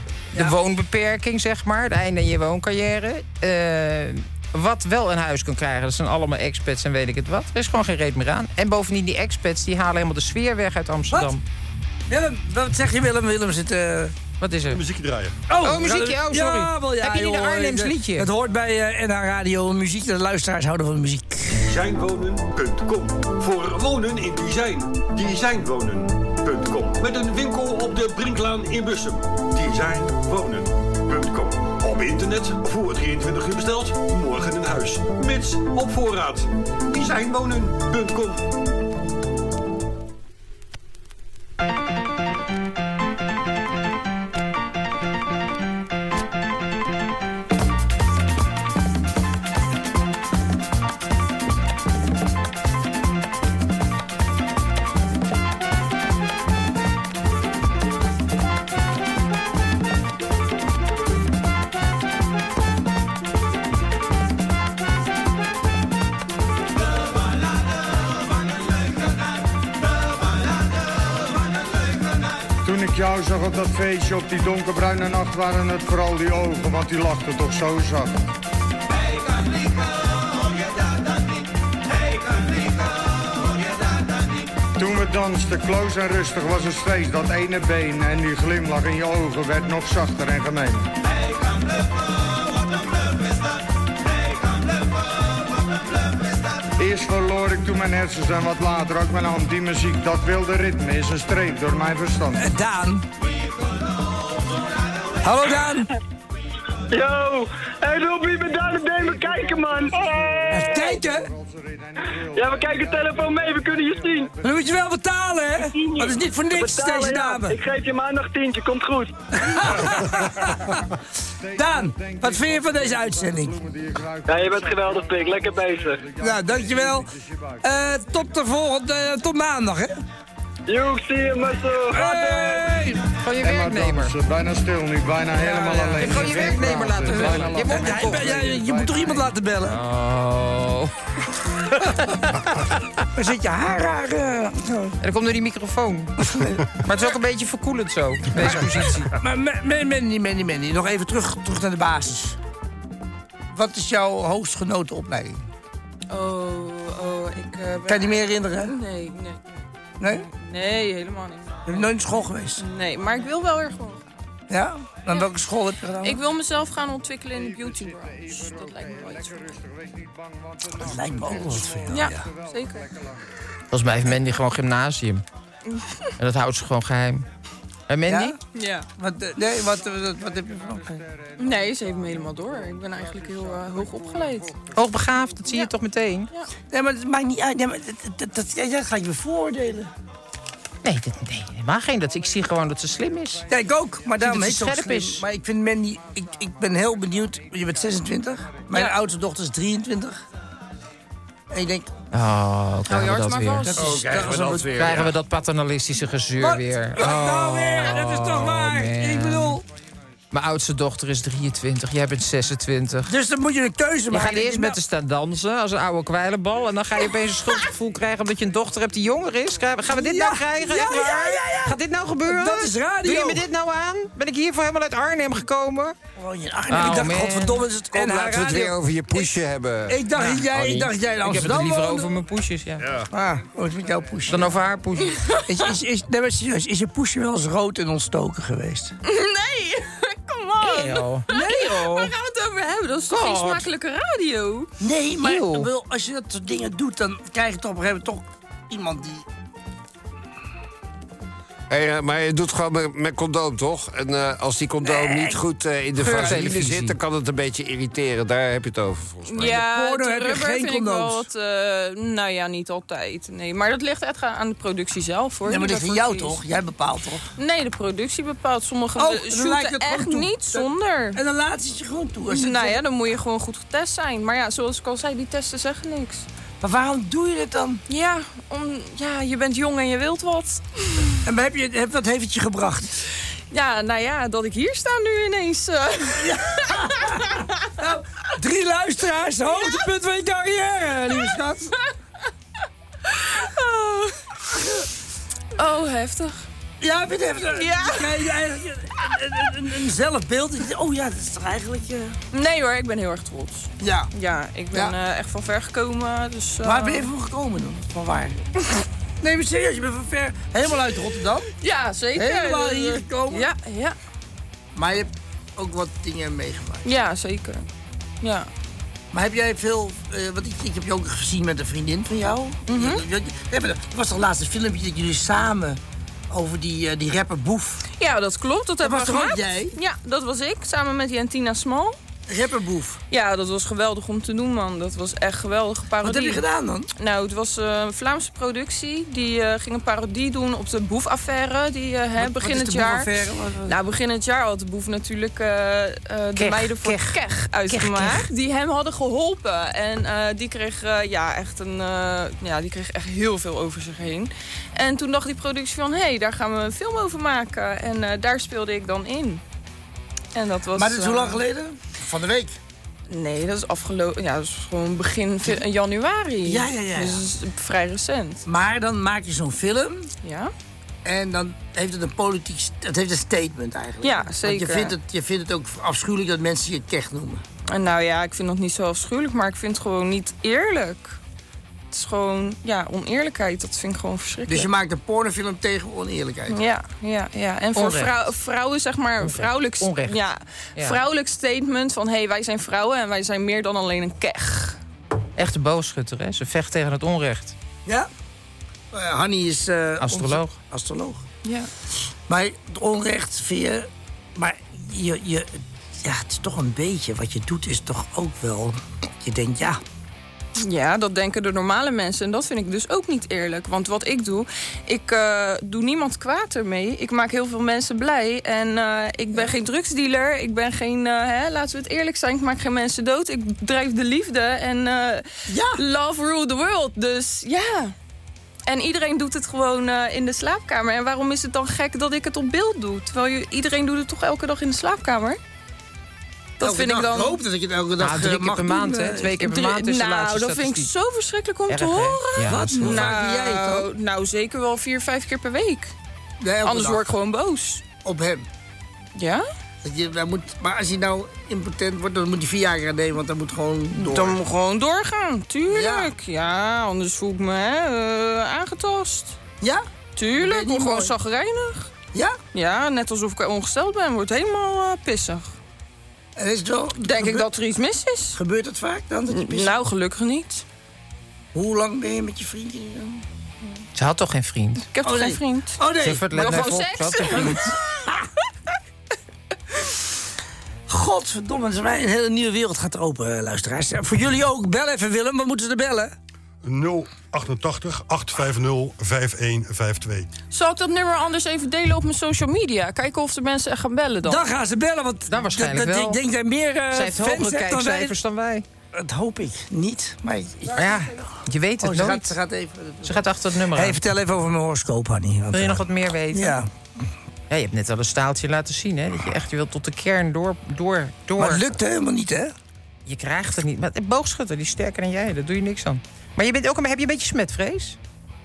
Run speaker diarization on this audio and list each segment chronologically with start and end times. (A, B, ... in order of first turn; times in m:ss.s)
0:00.4-0:11.4 A
0:12.1-0:14.1 B
0:14.4-0:14.8 A
0:14.7-0:15.4 C
0:15.5-0:21.6 B
0:15.6-0:18.3 A
0:21.6-0:38.5 D
1:12.6-1:18.3 E
1:24.8-1:30.9 E
1:36.8-1:42.5 E
1:42.4-1:43.1 B
1:45.2-1:45.9 B
1:46.9-1:51.0 F
1:49.0-1:54.7 E
1:50.5-1:51.3 B
1:52.3-1:54.3 F
1:54.4-1:57.6 B
1:55.6-1:59.2 F
1:59.4-2:00.8 B
1:59.8-2:00.5 E
2:01.4-2:07.8 E
2:01.6-2:03.6 B
2:04.3-2:06.0 F
2:06.2-2:07.1 B
2:07.6-2:10.0 B
2:10.7-2:12.7 F
2:11.9-2:13.0 B
2:13.2-2:14.2 A
2:13.4-2:19.3 E
2:15.4-2:19.8 B
2:15.8-2:18.5 A
2:19.7-2:20.9 A
2:23.2-2:25.0 B
2:25.0-2:26.2 A
2:26.2-2:26.6 B
2:26.8-2:29.1 A
2:28.4-2:32.4 B
2:33.5-2:35.4 B
2:36.1-2:41.9 G
2:37.9-2:38.7 B
2:40.0-2:40.3 B
2:41.7-2:42.6 B
2:42.6-2:44.0 G
2:44.5-2:46.2 B
2:46.0-2:49.6 G
2:47.3-2:53.2 E
2:50.8-2:52.3 B
2:51.9-2:52.9 G
2:53.7-2:55.2 A
2:55.7-2:56.1 G
2:56.2-2:57.2 A
2:57.9-2:58.4 A
2:58.1-3:01.0 B
2:58.5-2:58.9 G
3:00.9-3:04.4 E
3:01.4-3:04.6 G
3:04.7-3:06.3 A
3:06.7-3:09.9 B
3:10.8-3:13.5 A
3:13.5-3:20.2 B
3:14.2-3:15.2 A
3:21.5-3:21.9 B
3:22.1-3:23.7 A
3:22.9-3:24.0 G
3:23.7-3:25.0 B
3:23.8-3:25.2 H
3:24.7-3:29.6 A
3:26.4-3:29.6 B
3:30.3-3:33.1 A
3:33.1-3:34.8 B
3:34.1-3:46.0 A
3:39.9-3:43.4 B
3:46.2-3:48.8 B
3:46.7-3:47.7 A
3:47.9-3:50.9 H
3:49.9-3:52.1 B
3:50.2-3:50.5 A
3:51.2-3:52.9 A
3:52.8-3:53.1 H
3:53.1-3:58.9 B
3:54.3-3:55.2 A
3:59.0-4:04.7 G
4:00.6-4:02.1 A
4:01.3-4:01.6 B
4:03.1-4:03.7 A
4:04.8-4:09.2 B
4:05.2-4:05.7 A
4:11.7-4:19.6 H
4:14.8-4:15.4 B
4:16.0-4:17.0 A
4:19.3-4:26.4 G
4:19.4-4:21.3 B
4:25.4-4:27.2 B
4:27.4-4:31.2 G
4:29.0-4:32.8 B
4:32.3-4:36.3 G
4:36.6-4:37.8 B
4:37.9-4:41.2 G
4:41.2-4:43.0 B
4:43.5-4:47.7 G
4:46.2-4:51.7 B
4:53.1-4:54.2 G
4:55.6-4:56.5 G
4:56.8-5:02.2 B
4:57.5-4:58.3 G
5:02.3-5:07.1 G
5:03.8-5:04.1 B
5:06.6-5:08.4 B
5:09.2-5:11.5 B
5:11.6-5:14.0 G
5:12.2-5:13.5 B
5:14.7-5:16.9 B
5:16.8-5:17.6 G
5:18.2-5:18.5 G
5:19.1-5:25.8 B
5:22.7-5:23.0 G
5:26.3-5:27.8 B
5:28.0-5:32.0 G
5:28.8-5:29.8 B
5:32.3-5:33.0 B
5:33.1-5:36.4 G
5:36.0-5:36.9 B
5:37.0-5:43.1 G
5:42.2-5:43.8 B
5:43.7-5:59.4 G
5:46.4-5:48.3 A
6:00.4-6:01.4 G
6:00.8-6:02.6 B
6:03.1-6:08.4 G
6:06.4-6:07.2 B
6:08.4-6:10.1 B
6:10.2-6:10.5 G
6:11.0-6:17.4 B
6:14.0-6:15.0 G
6:17.7-6:21.2 G
6:21.9-6:24.7 G
6:24.5-6:26.6 B
6:26.5-6:34.8 G
6:27.8-6:28.2 A
6:29.2-6:30.2 A
6:35.4-6:37.6 A
6:38.9-6:41.2 B
6:40.0-6:40.6 A
6:41.4-6:41.7 G
6:42.3-6:49.8 B
6:50.6-7:07.9 G
7:05.5-7:05.8 B
7:08.7-7:15.4 G
7:16.6-7:17.4 G
7:16.6-7:19.4 B
7:18.0-7:20.9 A
7:19.4-7:25.9 G
7:21.7-7:23.2 A
7:22.5-7:23.9 B
7:26.4-7:27.1 B
7:26.6-7:27.9 G
7:28.0-7:28.5 B
7:29.2-7:29.4 G
7:29.8-7:34.5 B
7:33.9-7:39.4 G
7:35.7-7:36.1 B
7:39.6-7:41.1 B
7:40.2-7:41.9 G
7:42.5-7:45.5 G
7:46.4-7:47.5 B
7:47.0-7:48.4 G
7:48.4-7:49.8 B
7:49.3-7:50.6 G
7:51.5-7:53.2 B
7:54.0-7:54.9 A
7:54.9-7:55.8 G
7:55.0-7:56.8 B
7:56.0-7:57.7 A
7:56.3-7:57.7 G
8:00.9-8:06.1 B
8:06.6-8:10.3 C
8:10.5-8:14.4 G
8:14.2-8:18.2 B
8:15.3-8:16.2 A
8:16.9-8:18.6 A
8:18.9-8:21.3 B
8:20.7-8:22.4 A
8:21.8-8:26.7 B
8:23.0-8:24.0 A
8:25.5-8:26.6 A
8:27.5-8:31.7 A
8:31.4-8:32.5 B
8:33.1-8:38.0 A